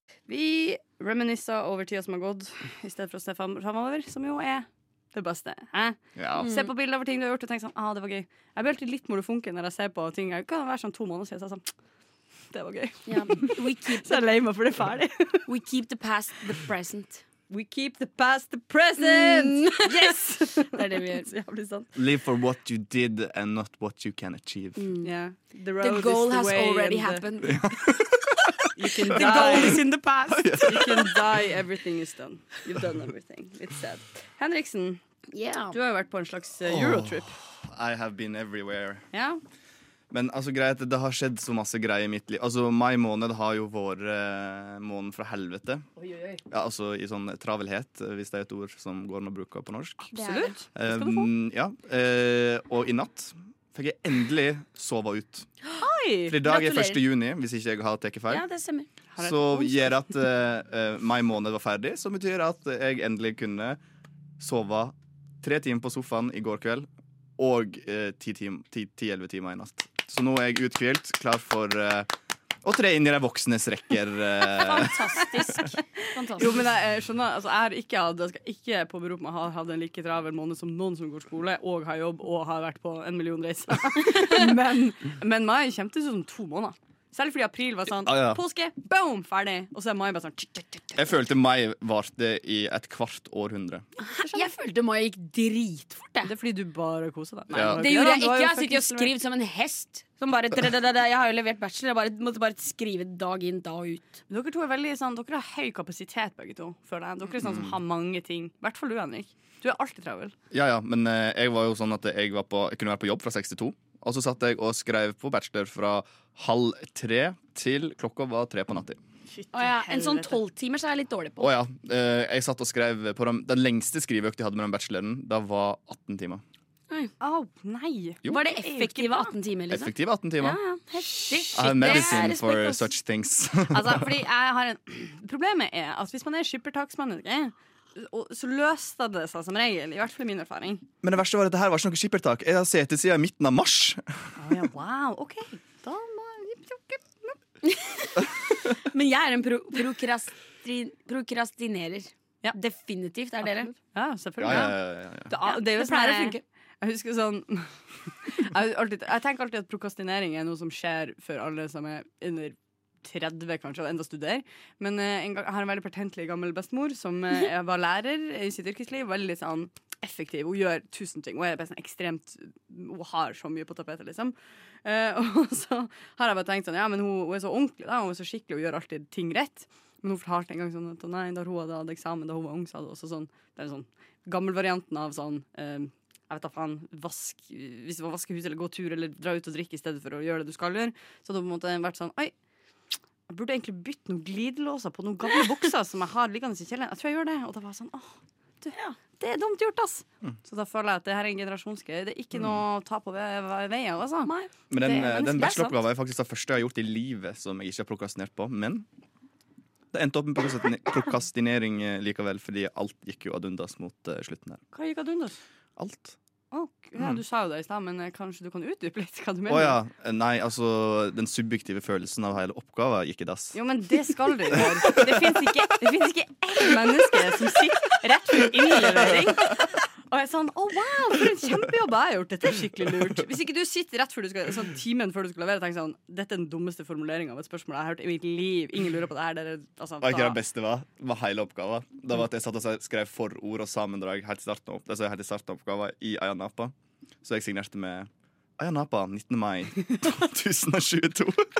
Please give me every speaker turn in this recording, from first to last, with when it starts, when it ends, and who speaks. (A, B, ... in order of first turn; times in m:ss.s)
0:00.3-0:11.6 A
0:06.2-0:06.5 B
0:06.4-0:06.7 C
0:12.5-0:15.4 A
0:13.0-0:14.2 C
0:15.4-0:17.2 C
0:17.5-0:21.9 A
0:19.0-0:21.3 C
0:21.9-0:24.9 B
0:24.8-0:25.1 C
0:25.0-0:27.2 A
0:25.8-0:27.7 C
0:27.4-0:28.4 B
0:28.8-0:29.8 A
0:29.1-0:31.0 C
0:29.2-0:31.1 B
0:30.6-0:35.0 A
0:35.3-0:35.8 C
0:35.7-0:37.4 A
0:36.6-0:39.0 B
0:39.1-0:39.4 A
0:40.1-0:45.8 B
0:46.0-0:46.4 A
0:46.5-0:50.1 B
0:50.0-0:51.3 A
0:50.1-0:50.5 C
0:50.8-0:55.5 B
0:55.8-0:56.4 A
0:56.3-0:58.4 B
0:56.4-0:57.0 C
0:58.3-0:58.9 C
0:59.1-1:00.0 A
0:59.2-1:03.8 B
1:04.4-1:06.9 B
1:07.4-1:12.1 B
1:12.6-1:15.7 B
1:14.5-1:16.6 C
1:16.3-1:31.0 A
1:28.0-1:28.4 B
1:30.9-1:33.8 B
1:34.0-1:36.3 C
1:34.1-1:34.5 A
1:36.2-1:39.1 A
1:37.5-1:37.9 B
1:37.8-1:44.2 C
1:44.3-1:50.3 A
1:47.4-1:47.8 B
1:50.5-1:59.0 B
1:59.3-2:00.4 A
1:59.5-2:01.5 C
2:01.4-2:06.4 B
2:07.2-2:09.3 A
2:08.3-2:12.9 C
2:09.7-2:10.6 B
2:11.0-2:12.3 A
2:11.5-2:14.1 B
2:13.7-2:20.8 A
2:21.0-2:24.0 B
2:24.4-2:27.4 A
2:27.6-2:33.7 C
2:33.7-3:12.3 A
2:34.4-2:35.3 B
2:35.4-2:36.4 C
3:13.3-3:25.7 A
3:24.7-3:28.9 B
3:29.9-3:34.6 B
3:34.7-3:35.4 A
3:35.8-3:36.2 B
3:36.5-3:39.8 A
3:39.5-3:43.6 B
3:43.5-4:00.4 A
3:44.5-3:45.4 B
4:00.0-4:11.5 B